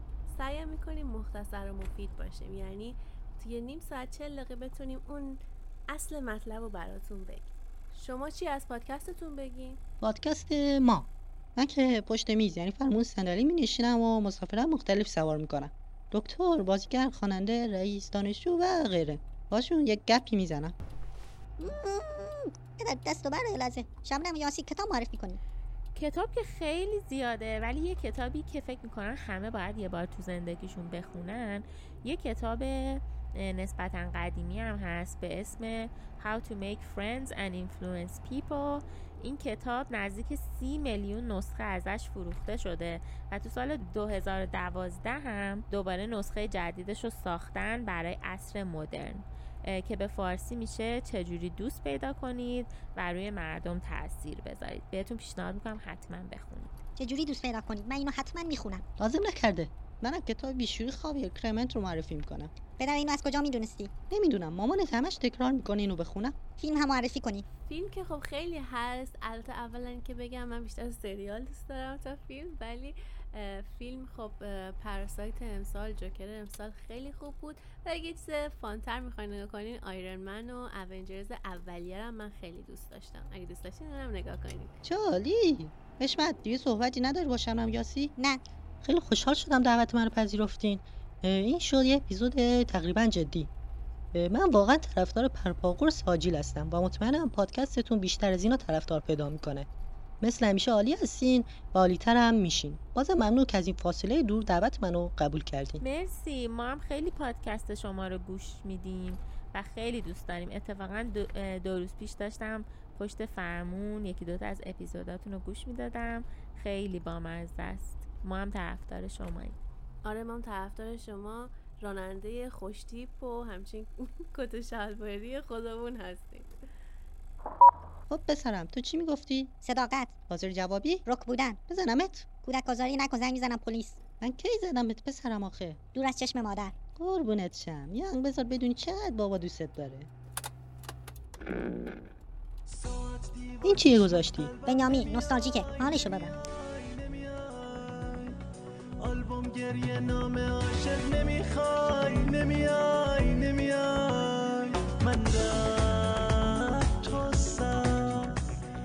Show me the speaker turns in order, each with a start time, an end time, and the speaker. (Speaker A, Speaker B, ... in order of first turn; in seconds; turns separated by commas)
Speaker A: 0.3-9.8, Speaker B: 10.0-20.7, Speaker C: 21.6-25.4, Speaker D: 25.9-56.7, Speaker C: 57.0-58.8, Speaker B: 59.0-62.5, Speaker C: 62.8-63.9, Speaker B: 64.1-66.4, Speaker C: 66.6-67.5, Speaker A: 67.7-84.8, Speaker B: 84.8-88.1, Speaker C: 88.2-88.4, Speaker B: 88.8-93.5, Speaker B: 94.1-99.7, Speaker B: 100.2-105.8, Speaker D: 105.8-119.6, Speaker A: 120.0-126.5, Speaker B: 128.1-129.5, Speaker C: 129.6-130.2, Speaker B: 130.3-131.1, Speaker C: 131.1-131.6, Speaker B: 131.7-132.3, Speaker C: 132.4-134.0, Speaker B: 134.2-135.8, Speaker C: 135.9-136.8, Speaker B: 137.0-140.1, Speaker E: 142.7-148.3, Speaker B: 143.6-144.5, Speaker C: 144.7-146.3, Speaker E: 149.0-158.4